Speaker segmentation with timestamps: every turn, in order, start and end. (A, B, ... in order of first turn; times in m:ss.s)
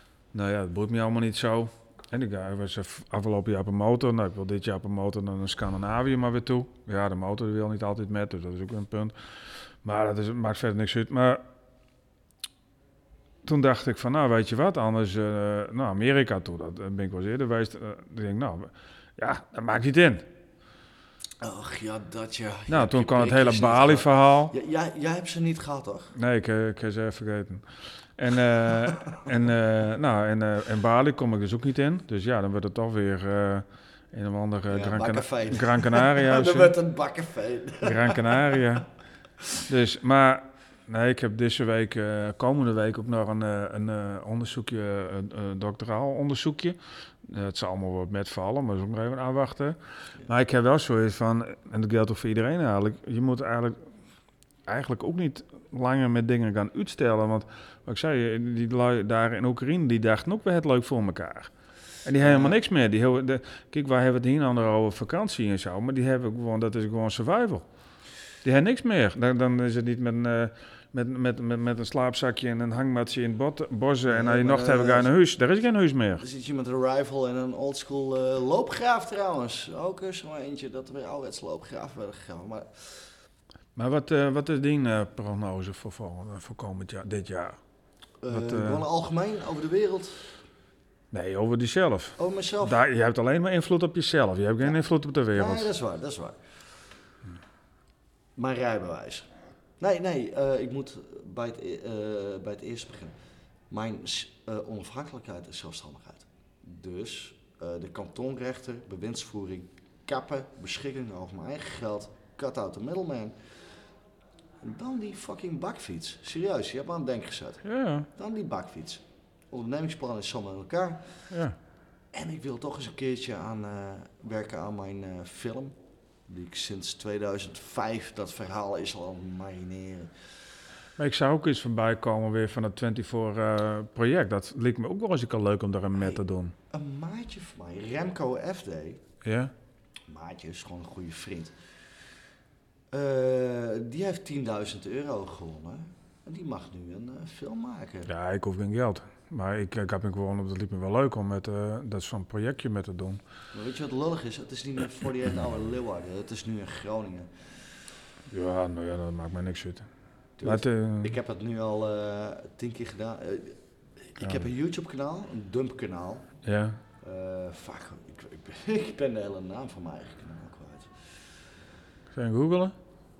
0:00.3-0:09.1 A
0:09.8-0:11.4 A
0:13.4-0:20.2 A
0:21.4-0:26.1 B
0:22.7-0:24.5 A
0:26.1-0:27.6 A
0:28.2-0:36.7 A
0:34.7-0:38.6 B
0:37.8-0:38.9 A
0:39.7-0:53.8 A
0:54.7-1:01.5 A
1:02.0-1:07.6 A
1:02.2-1:02.6 B
1:08.4-1:16.2 A
1:14.1-1:15.1 B
1:16.2-1:23.1 B
1:23.8-1:27.6 A
1:28.2-1:30.3 B
1:28.3-1:28.8 A
1:31.1-1:35.7 A
1:32.2-1:32.8 B
1:35.3-1:36.4 B
1:38.4-1:43.2 B
1:43.7-1:53.3 B
1:54.6-2:01.1 B
1:57.6-1:58.1 A
2:01.3-2:01.6 A
2:02.1-2:05.7 B
2:06.3-2:10.1 B
2:11.0-2:16.5 A
2:16.0-2:19.0 B
2:19.2-2:19.5 A
2:20.1-2:21.5 B
2:22.9-2:28.1 B
2:28.0-2:33.2 A
2:33.5-2:37.3 B
2:38.3-2:39.9 A
2:40.4-2:46.3 B
2:40.4-2:41.1 A
2:44.2-2:44.4 A
2:46.4-2:46.8 A
2:47.0-2:51.1 B
2:52.1-2:52.8 A